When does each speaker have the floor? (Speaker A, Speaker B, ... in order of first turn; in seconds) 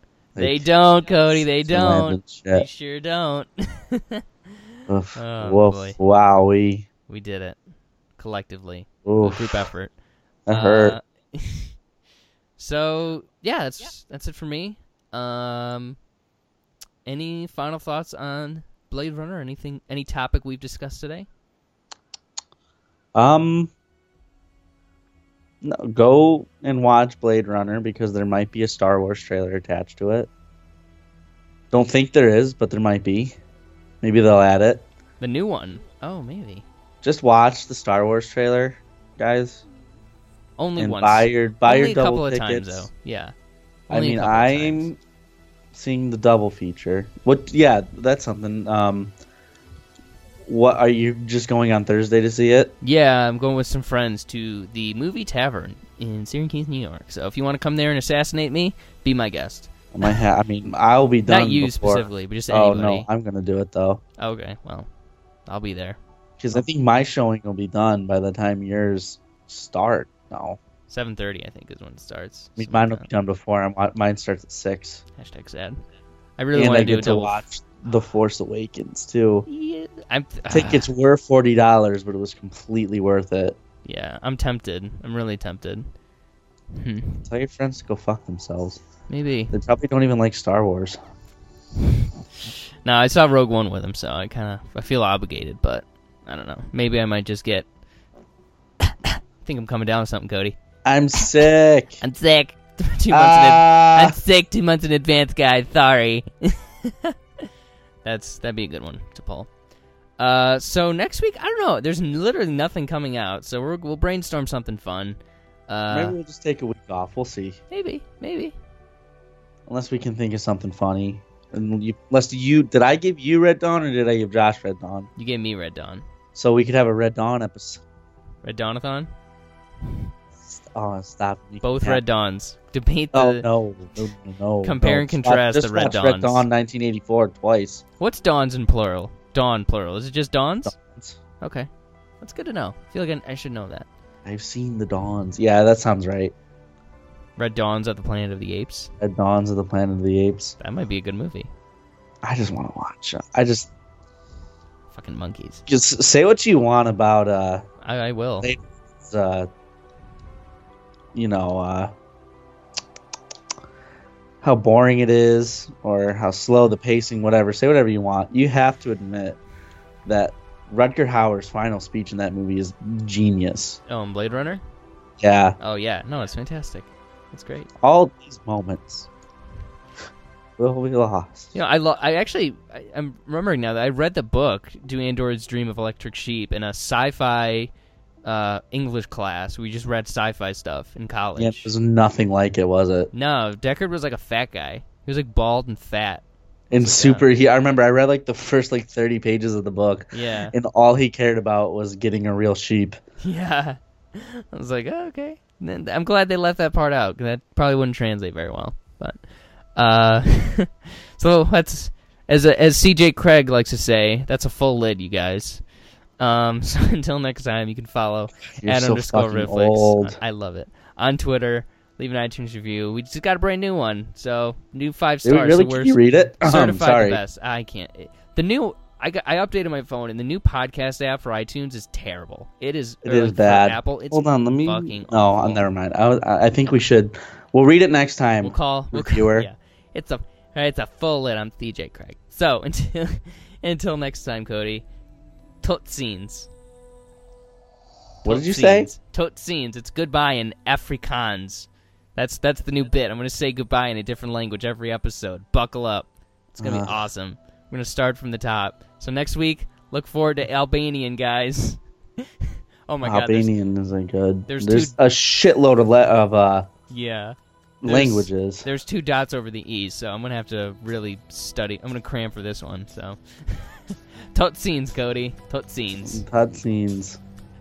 Speaker A: 0.3-0.7, 1.3-2.7, 4.9-6.8, 9.1-9.7, 10.5-10.9, 23.1-23.7, 25.6-30.3, 31.7-33.4, 34.0-34.8, 37.0-39.6, 40.8-42.9, 43.9-45.0, 45.7-49.1, 50.4-52.8, 59.9-64.0, 66.4-70.6, 72.6-75.0, 76.5-79.5, 80.5-83.5, 87.2-88.8, 89.5-91.0, 100.8-102.0, 103.1-104.2, 115.9-117.6, 119.7-125.1, 126.3-127.8, 130.4-132.0, 133.1-137.8, 140.6-141.2, 144.2-146.3, 149.0-150.6, 152.2-153.7, 155.7-157.6, 158.4-159.5, 161.1-161.9, 164.4-169.4, 170.1-173.8, 175.2-175.6, 177.8-179.1, 180.6-181.5, 191.4-193.1, 196.7-203.0, 218.6-220.2, 225.2-227.2, 233.0-239.5, 248.2-248.9, 256.6-256.9, 263.0-266.7, 267.8-268.6, 276.0-277.2
Speaker B: 0.3-4.2, 5.2-6.0, 7.1-7.6, 8.2-9.9, 10.5-11.7, 12.6-16.0, 17.1-21.3, 35.2-36.6, 40.6-43.3, 43.9-44.9, 52.8-60.2, 61.3-63.1, 64.2-64.9, 65.5-66.0, 70.9-73.0, 75.2-75.8, 76.4-77.4, 79.5-80.9, 83.8-85.8, 86.7-87.2, 89.1-89.5, 92.8-97.7, 98.8-100.5, 102.0-107.1, 108.0-109.5, 110.2-116.2, 117.7-118.5, 125.2-126.0, 128.4-129.1, 131.6-133.5, 134.6-136.4, 138.0-140.7, 141.4-141.7, 142.2-143.9, 147.4-148.9, 150.6-151.5, 154.9-155.6, 157.8-158.5, 173.9-174.6, 175.6-177.7, 181.5-187.7, 188.2-191.7, 193.1-197.2, 200.1-200.5, 203.2-209.2, 209.8-215.6, 216.2-235.7, 238.4-244.8, 245.6-246.5, 248.2-263.5, 264.5-264.9, 266.9-276.2